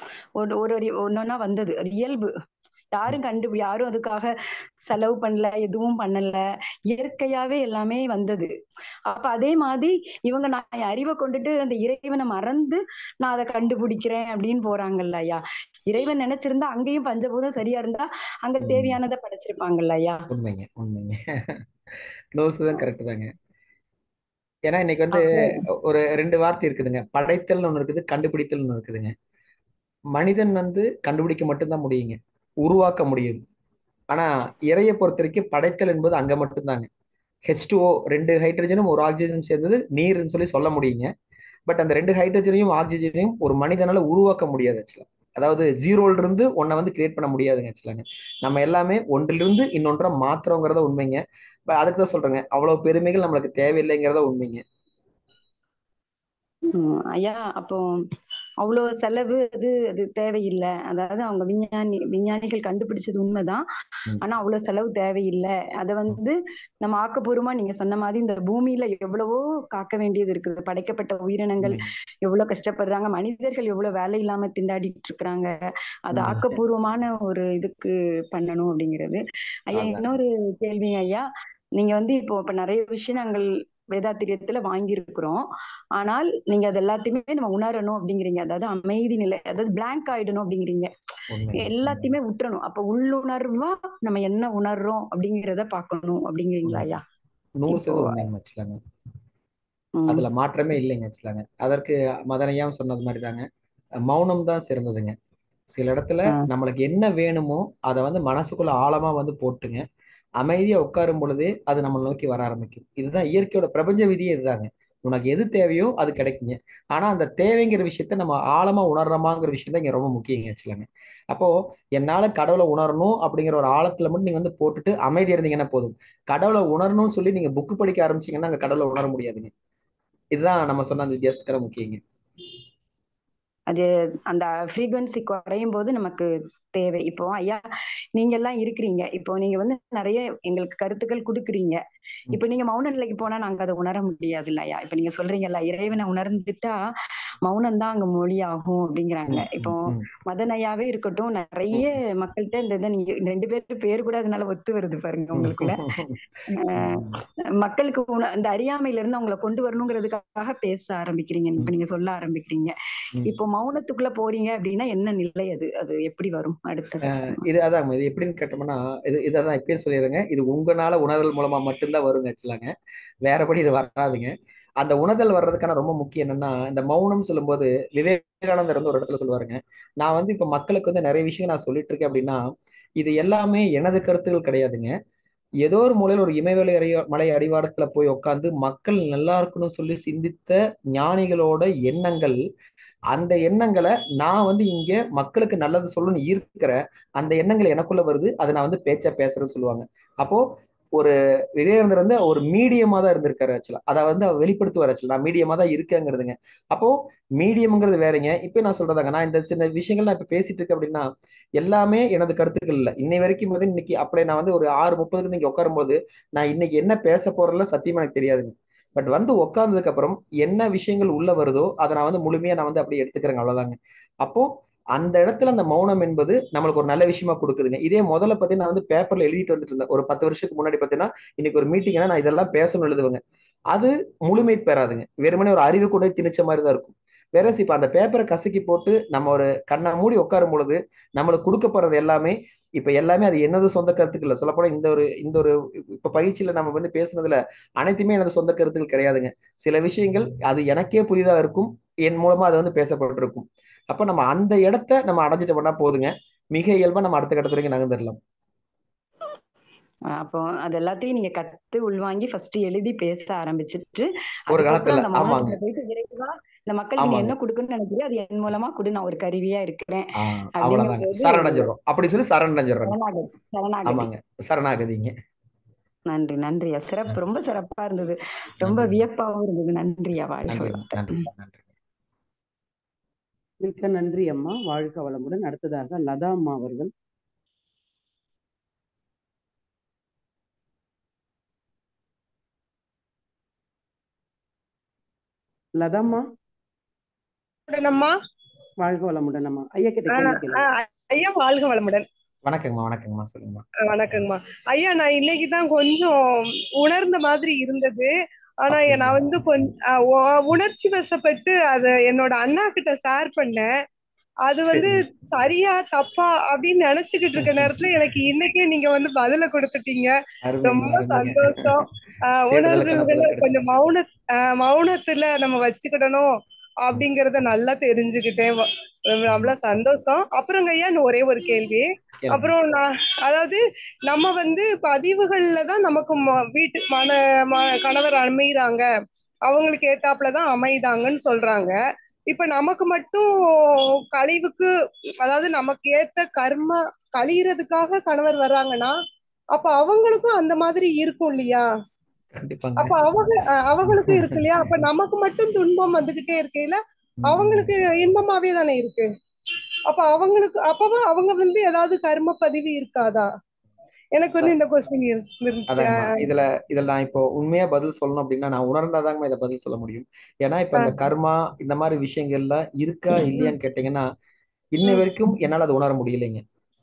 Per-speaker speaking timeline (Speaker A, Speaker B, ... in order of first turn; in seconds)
Speaker A: 0.4-2.3, 2.9-4.3, 4.9-8.5, 9.1-20.3, 25.2-25.6, 56.7-57.8, 58.6-75.5, 76.1-81.2, 81.8-85.5, 86.0-90.9, 91.6-97.0, 97.7-98.2, 100.0-100.2, 133.7-137.6, 138.2-141.8, 142.3-146.8, 147.4-155.8, 156.5-167.4, 260.1-271.7, 272.9-274.1, 276.1-281.2
Speaker B: 18.6-19.0, 20.3-21.6, 22.4-23.3, 24.7-29.1, 30.1-33.4, 34.1-36.9, 37.5-41.1, 41.7-54.6, 71.6-71.9, 76.1-76.6, 79.7-80.2, 91.3-92.1, 97.6-98.8, 100.1-103.4, 104.1-105.1, 105.7-109.8, 110.4-129.5, 130.3-132.0, 149.3-150.1, 155.4-156.2, 156.8-157.2, 167.0-172.7, 173.2-182.4, 183.0-184.9, 185.6-192.4, 193.1-200.4, 201.0-211.1, 211.6-258.2, 264.5-265.6, 267.0-267.4, 270.2-273.0, 273.9-275.1, 278.6-279.0, 280.5-281.6, 302.4-303.6, 308.7-309.2, 314.7-315.0, 317.4-317.7, 320.4-321.9, 322.5-323.9, 329.3-329.6, 332.2-332.5, 352.4-353.0, 353.8-354.9, 357.2-357.7, 365.7-374.1, 374.7-376.4
Speaker C: 283.6-286.9, 295.8-296.2, 298.8-300.7
Speaker D: 297.7-298.1, 300.1-302.1, 303.9-308.1, 308.6-313.7, 314.5-320.1, 320.7-321.8, 322.3-326.3, 326.8-338.9, 339.5-341.8, 342.3-343.3, 344.1-344.7, 345.2-348.9, 349.5-351.6, 352.8-359.1, 359.9-363.3, 364.1-366.3, 373.2-373.5